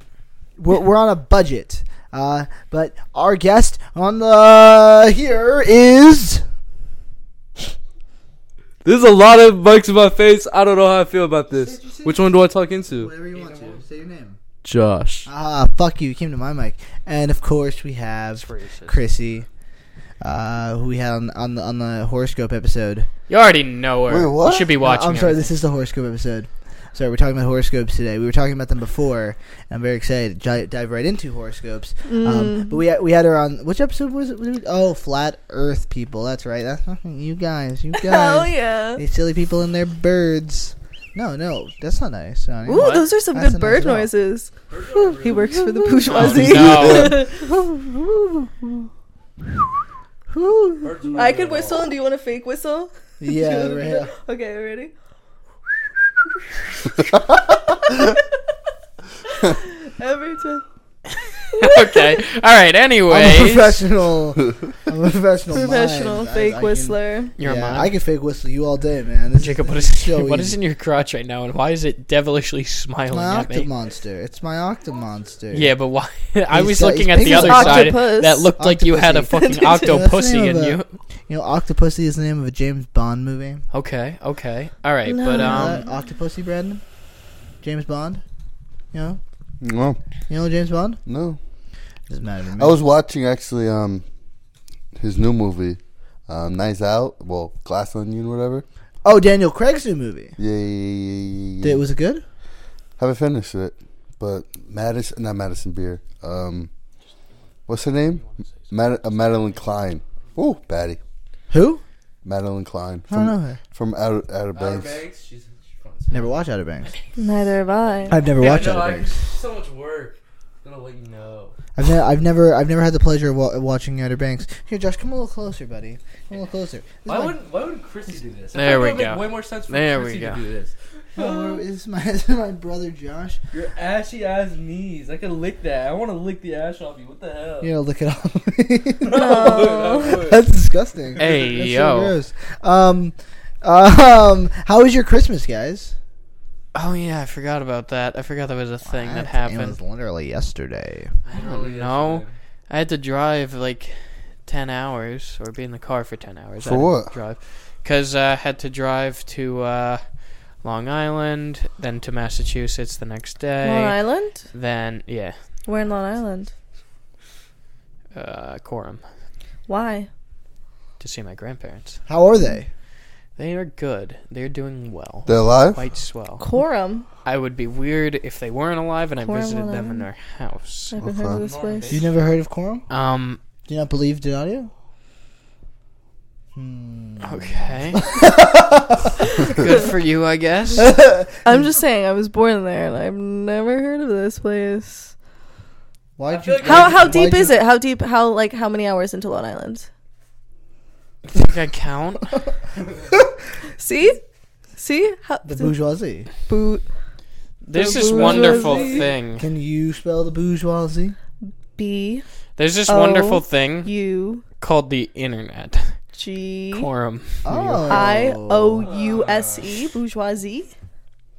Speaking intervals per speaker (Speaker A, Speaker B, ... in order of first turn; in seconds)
Speaker A: 0.6-6.5, 11.5-12.3, 12.9-14.4, 15.2-19.5, 20.2-23.1, 24.8-44.1, 45.3-46.3, 47.4-48.5, 50.3-50.9, 53.2-54.1, 63.1-70.6, 73.1-75.7, 76.5-83.6, 85.3-86.8, 87.6-88.2, 88.9-89.2, 90.3-91.0, 92.1-92.8, 99.0-100.3, 101.6-102.2, 111.5-111.8, 113.1-113.6, 116.1-116.9, 118.1-119.2, 121.8-127.4, 131.2-133.4, 137.6-146.0, 148.8-151.2, 172.1-172.7, 181.9-182.9, 183.7-184.7, 186.5-189.1, 190.8-191.6, 196.2-197.6, 205.4-206.3, 209.3-211.2, 217.4-218.9
Speaker B: 8.8-13.8, 14.6-15.3, 44.7-45.6, 50.8-51.9, 114.5-116.4, 117.9-121.5, 127.0-131.5, 133.5-137.7, 139.0-140.5, 151.3-152.4, 181.3-182.2, 196.2-197.6, 208.1-209.1, 218.8-220.0
Speaker C: 18.4-19.0, 23.3-25.6, 42.7-43.1, 46.0-47.2, 61.5-63.8, 67.4-67.9, 69.4-73.7, 75.5-80.9, 83.7-85.8, 107.0-109.7, 128.5-130.4, 141.2-142.2, 146.7-149.8, 151.2-165.4, 168.1-169.0, 171.0-172.0, 173.3-176.4, 177.2-181.0, 182.9-183.4, 187.2-188.0, 189.5-190.9, 201.2-202.3, 207.6-209.5, 212.6-213.9, 214.6-216.0, 216.7-217.9
Speaker D: 24.1-24.7, 46.2-47.2, 89.6-90.0, 91.0-91.4, 92.6-94.0, 94.9-98.6, 100.4-101.8, 103.0-106.7, 107.7-111.0, 112.2-115.0, 156.6-157.2, 175.2-175.8, 181.0-181.4
Speaker E: 32.0-32.8, 37.9-39.0, 42.6-47.6, 51.2-54.9, 56.8-58.2, 59.3-60.6, 61.6-62.2, 65.5-67.3, 77.2-78.5, 79.3-80.0, 85.0-86.0, 117.2-118.3, 139.1-140.2, 163.6-164.5, 165.7-166.5, 169.7-170.1, 176.4-177.1, 179.2-180.0, 180.9-182.0, 189.4-189.9, 191.4-195.2, 196.6-199.9, 203.8-204.2, 204.8-205.7, 206.4-206.9, 207.8-209.0, 211.4-212.2, 212.9-214.4, 216.1-216.9, 217.9-220.7